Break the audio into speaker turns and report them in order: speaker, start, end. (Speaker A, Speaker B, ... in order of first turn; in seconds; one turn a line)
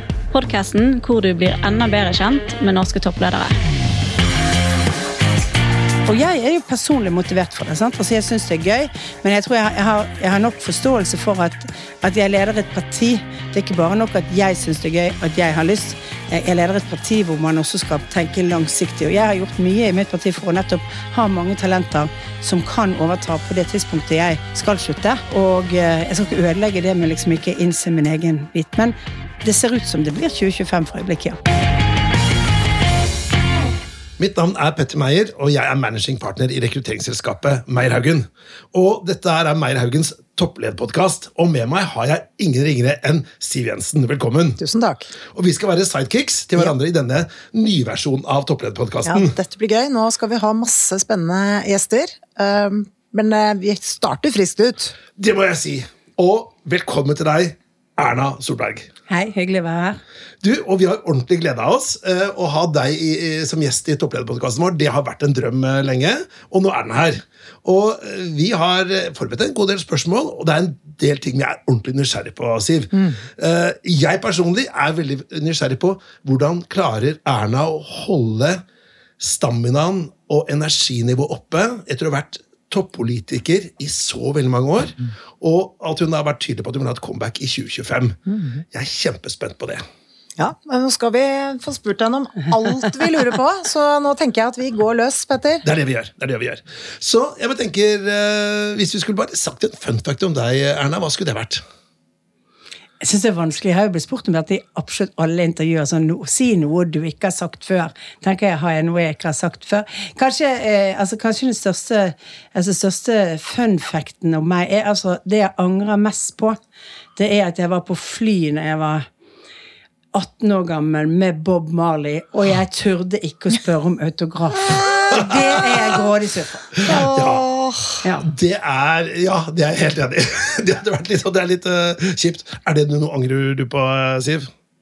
Speaker A: 0.3-3.6
Speaker B: 6.0-31.4
Speaker C: 34.2-44.6
Speaker D: 44.6-45.1
Speaker C: 45.3-49.3
Speaker D: 49.0-55.0
Speaker C: 55.2-58.9
Speaker B: 59.1-60.0
Speaker C: 60.4-78.6
Speaker C: 79.2-89.8
Speaker D: 90.4-95.6
Speaker C: 95.6-101.6
Speaker B: 103.0-116.6
Speaker B: 117.2-119.1
Speaker B: 120.1-126.8
Speaker C: 125.1-125.4
Speaker C: 126.8-127.4
Speaker D: 126.8-127.9
Speaker B: 128.0-128.3
Speaker C: 128.2-134.5